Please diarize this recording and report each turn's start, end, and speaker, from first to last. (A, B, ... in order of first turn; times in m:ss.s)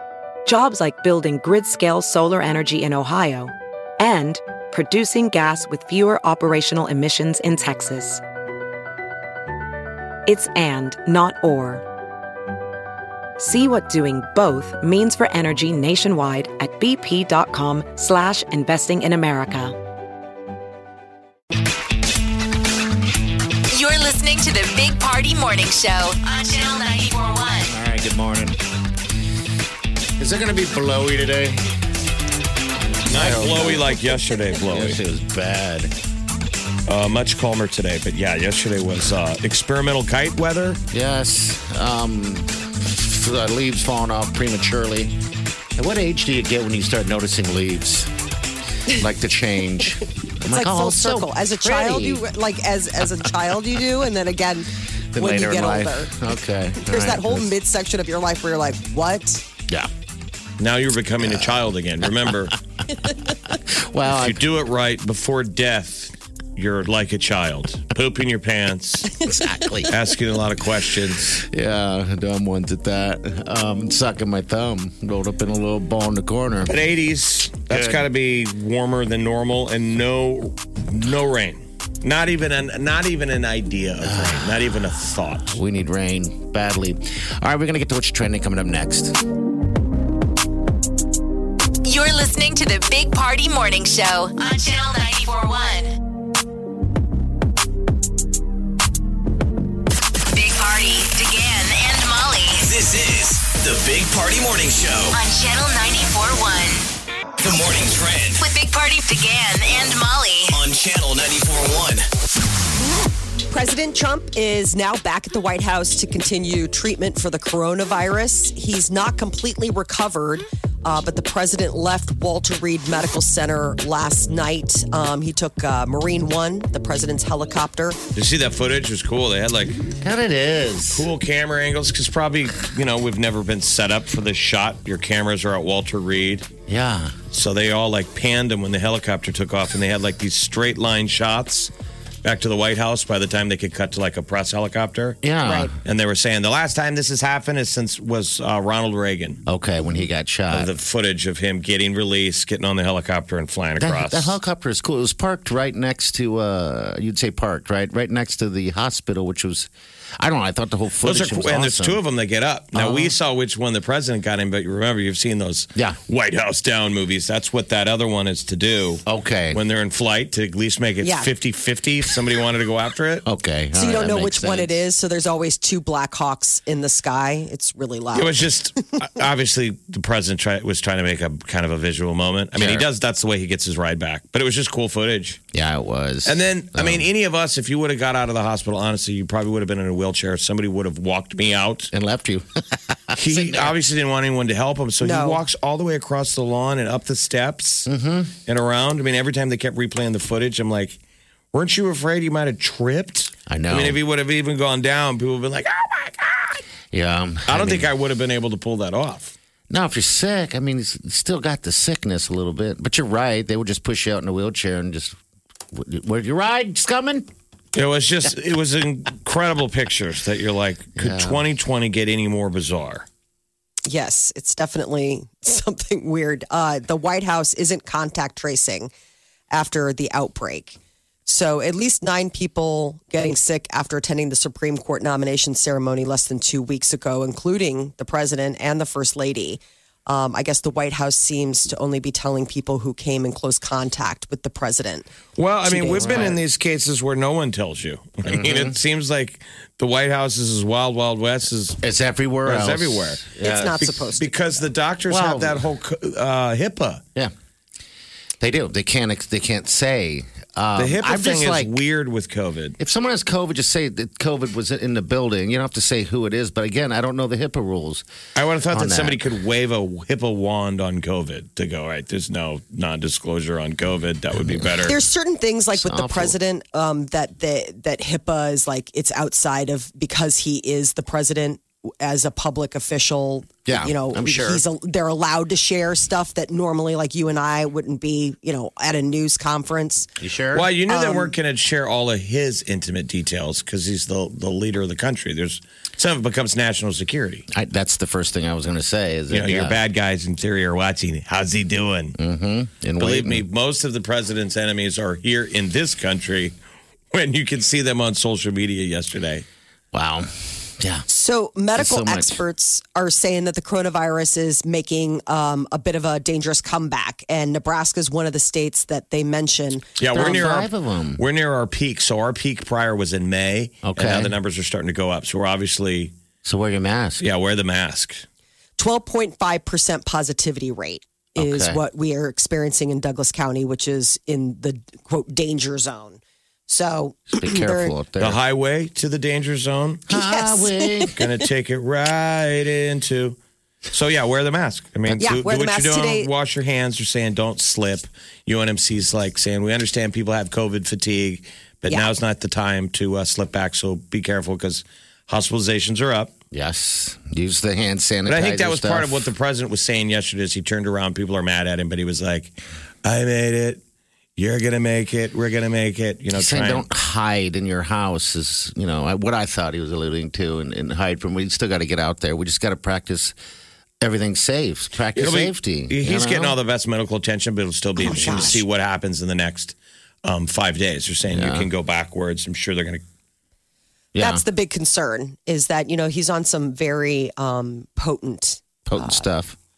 0:00.4-0:08.2 A
0:10.3-0:11.8 A
0:13.4-0:19.8 A
0:23.7-0:27.8 B
0:27.7-0:28.6 C
0:30.2-0:31.7 C
0:33.1-0:35.0 D
0:33.1-0:35.9 C
0:36.9-0:40.8 D
0:40.9-0:45.2 C
0:45.7-0:48.1 C
0:48.9-0:52.2 C
0:50.4-0:56.1 E
0:55.1-0:57.6 C
0:56.8-0:59.4 E
1:00.6-1:02.6 D
1:01.2-1:04.4 C
1:04.0-1:09.2 D
1:09.2-1:10.1 C
1:09.9-1:11.4 D
1:11.1-1:16.8 C
1:16.7-1:25.6 D
1:17.7-1:18.0 C
1:24.0-1:24.8 C
1:25.5-1:29.2 C
1:31.8-1:36.0 B
1:40.3-1:42.7 B
1:42.6-1:45.2 F
1:45.1-1:46.9 B
1:47.4-1:48.4 F
1:48.4-1:50.6 B
1:50.5-1:52.0 F
1:53.5-2:08.0 E
2:08.1-2:09.8 D
2:10.0-2:11.1 C
2:10.9-2:16.5 D
2:16.7-2:17.1 C
2:17.3-2:21.7 D
2:22.2-2:25.2 D
2:25.2-2:25.7 C
2:25.4-2:25.7 E
2:25.8-2:29.4 D
2:29.4-2:30.7 C
2:30.5-2:34.4 D
2:33.8-2:42.0 C
2:41.0-2:53.2 D
2:42.7-2:43.1 C
2:49.0-2:49.6 C
2:51.0-2:51.3 E
2:53.2-2:54.8 C
2:53.7-2:58.4 E
2:58.1-3:05.4 D
3:02.5-3:02.9 C
3:05.5-3:07.1 C
3:06.2-3:11.9 D
3:11.9-3:13.8 C
3:13.2-3:17.9 D
3:15.0-3:15.4 E
3:17.8-3:18.3 C
3:18.4-3:21.0 D
3:21.5-3:26.6 D
3:23.5-3:24.0 C
3:26.9-3:27.9 C
3:27.5-3:29.3 D
3:29.7-3:35.2 C
3:35.7-3:37.3 C
3:37.7-3:43.0 D
3:41.0-3:41.4 C
3:43.9-3:48.9 E
3:49.5-4:05.1 E
4:05.4-4:11.8 D
4:05.6-4:06.3 E
4:05.9-4:06.4 C
4:08.2-4:08.8 C
4:11.8-4:13.8 C
4:12.4-4:17.0 D
4:13.4-4:14.3 E
4:15.1-4:15.6 C
4:18.4-4:21.7 C
4:20.8-4:22.8 D
4:22.8-4:28.0 C
4:28.3-4:35.0 D
4:28.7-4:29.2 C
4:34.4-4:34.9 C
4:34.8-4:50.1 E
4:35.7-4:36.4 C
4:43.6-4:44.6 C
4:50.2-4:50.7 C
4:50.5-4:57.4 D
4:50.9-4:51.3 E
4:57.5-4:59.8 C
4:59.3-5:02.2 D
5:02.2-5:03.4 C
5:03.0-5:06.5 D
5:07.1-5:09.4 D
5:09.9-5:11.1 C
5:11.1-5:19.9 E
5:11.7-5:12.4 C
5:20.0-5:26.1 D
5:20.0-5:21.2 C
5:23.8-5:24.3 C
5:26.4-5:27.2 C
5:27.2-5:28.2 D
5:28.8-5:37.9 E
5:31.4-5:31.8 C
5:37.3-5:38.4 C
5:38.2-5:40.0 D
5:40.1-5:41.2 C
5:40.1-5:41.1 E
5:41.1-5:43.4 D
5:43.9-5:56.3 D
5:45.2-5:46.3 E
5:56.5-5:59.3 C
5:58.2-6:03.8 D
6:04.4-6:06.8 D
6:06.3-6:13.3 C
6:14.0-6:16.6 C
6:15.2-6:23.0 D
6:18.1-6:18.6 E
6:18.1-6:18.6 C
6:21.3-6:21.7 C
6:24.1-6:24.4 C
6:24.2-6:29.2 E
6:28.9-6:29.6 C